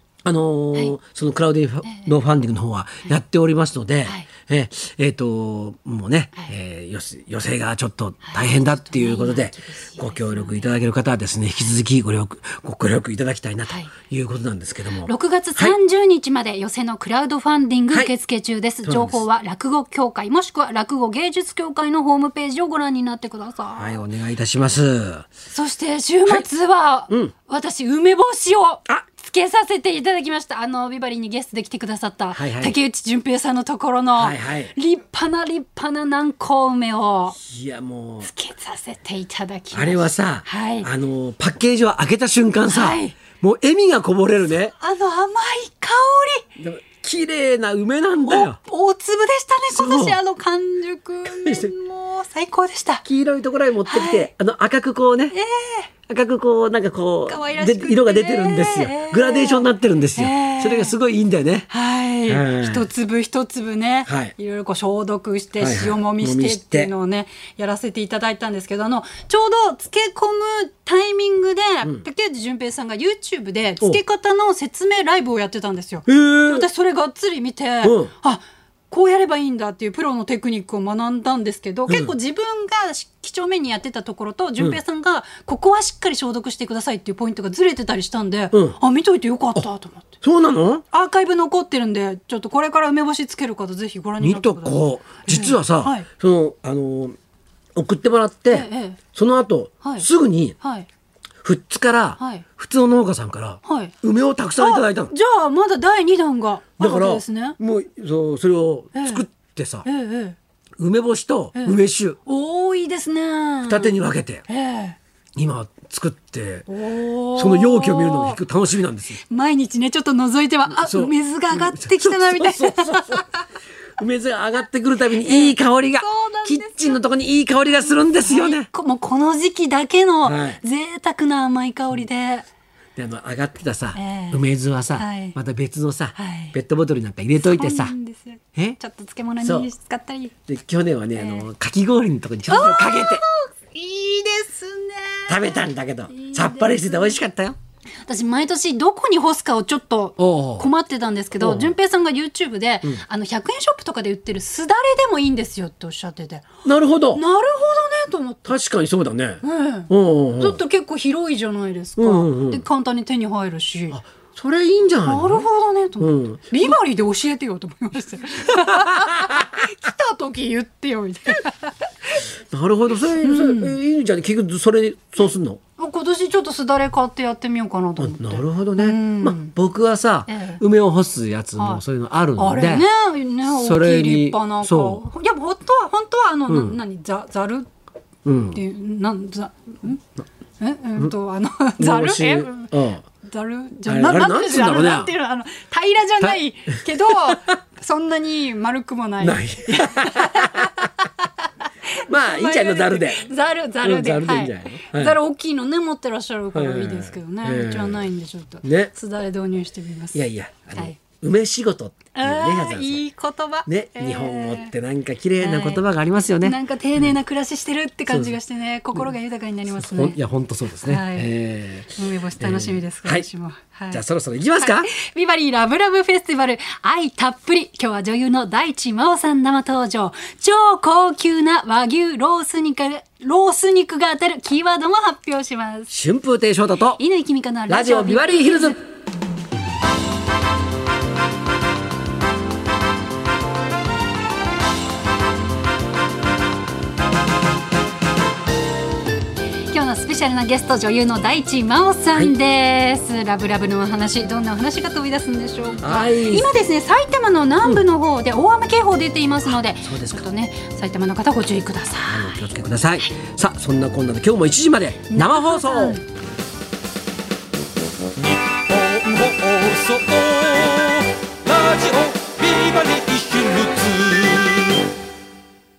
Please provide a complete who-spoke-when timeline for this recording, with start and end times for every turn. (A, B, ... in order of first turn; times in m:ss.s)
0:00.2-0:15.8 A
0:01.8-0:02.1 B
0:08.3-0:10.7 B
0:15.0-0:24.0 B
0:18.8-0:19.2 A
0:23.8-0:25.3 A
0:25.5-0:37.4 B
0:32.3-0:32.8 A
0:34.2-0:34.7 A
0:37.4-0:38.3 A
0:38.2-0:40.9 B
0:39.7-0:44.8 A
0:42.7-0:43.2 B
0:44.8-0:46.4 B
0:46.6-0:48.6 A
0:48.2-0:53.0 B
0:49.7-0:50.2 A
0:51.3-0:51.7 A
0:53.0-0:55.4 A
0:53.8-0:54.3 B
0:55.3-0:55.9 B
0:56.1-1:01.7 A
0:57.3-1:01.0 B
1:01.7-1:30.2 B
1:02.3-1:02.8 A
1:04.1-1:04.3 A
1:05.6-1:06.9 A
1:16.1-1:16.7 A
1:17.8-1:18.1 A
1:21.9-1:22.1 A
1:28.5-1:28.8 A
1:30.2-1:30.8 A
1:30.9-1:36.1 B
1:34.2-1:37.2 A
1:37.8-1:40.6 A
1:38.5-1:39.0 B
1:39.8-1:40.1 B
1:40.6-1:40.9 B
1:41.4-1:45.2 A
1:42.2-1:42.4 B
1:43.6-1:43.9 B
1:44.6-1:47.6 B
1:46.8-1:49.9 A
1:48.9-1:49.2 B
1:49.8-1:50.4 B
1:50.8-1:52.2 A
1:51.6-1:54.0 B
1:53.6-1:54.5 A
1:54.5-1:55.0 B
1:55.4-1:56.7 A
1:56.7-1:58.4 B
1:57.3-1:59.2 A
1:59.2-2:03.4 B
2:00.7-2:03.2 A
2:04.0-2:08.7 A
2:05.2-2:07.0 B
2:07.7-2:12.5 B
2:10.2-2:10.6 A
2:13.0-2:17.9 A
2:13.9-2:14.4 B
2:15.0-2:15.4 B
2:16.2-2:16.6 B
2:17.4-2:20.4 B
2:19.4-2:19.7 A
2:20.5-2:23.2 A
2:21.2-2:21.5 B
2:22.5-2:27.2 B
2:25.3-2:27.6 A
2:28.1-2:36.5 B
2:30.2-2:30.7 A
2:31.4-2:31.7 A
2:36.6-2:37.2 A
2:37.1-2:38.6 B
2:38.5-2:40.6 A
2:39.4-2:44.0 B
2:42.0-2:42.6 A
2:43.9-2:45.4 A
2:45.0-2:52.2 B
2:46.0-2:46.7 A
2:48.9-2:49.5 A
2:52.5-2:55.6 A
2:53.2-2:53.8 B
2:55.8-2:59.5 B
2:58.0-3:02.9 A
3:00.3-3:00.6 B
3:01.6-3:01.8 B
3:02.4-3:07.7 B
3:03.5-3:05.0 A
3:06.5-3:06.8 A
3:08.2-3:08.6 A
3:08.5-3:10.0 B
3:10.6-3:21.3 B
3:11.8-3:13.0 A
3:13.8-3:15.2 A
3:16.2-3:17.6 A
3:19.2-3:20.9 A
3:21.9-3:30.2 B
3:22.1-3:25.2 A
3:26.5-3:28.1 A
3:28.6-3:28.9 A
3:30.1-3:33.1 A
3:32.2-3:34.7 B
3:33.7-3:37.2 A
3:35.4-3:35.8 B
3:36.4-3:40.2 B
3:38.1-3:38.4 A
3:39.7-3:43.3 A
3:40.8-3:41.3 B
3:42.0-3:44.0 B
3:43.9-3:44.9 A
3:44.6-3:55.9 B
3:55.9-3:57.0 A
3:57.0-3:58.8 B
3:57.7-3:58.8 A
4:09.7-4:22.5 B
4:15.8-4:16.5 A
4:19.4-4:20.2 A
4:22.0-4:26.0 A
4:25.1-4:26.0 B
4:29.4-4:30.1 C
4:31.6-4:34.1 C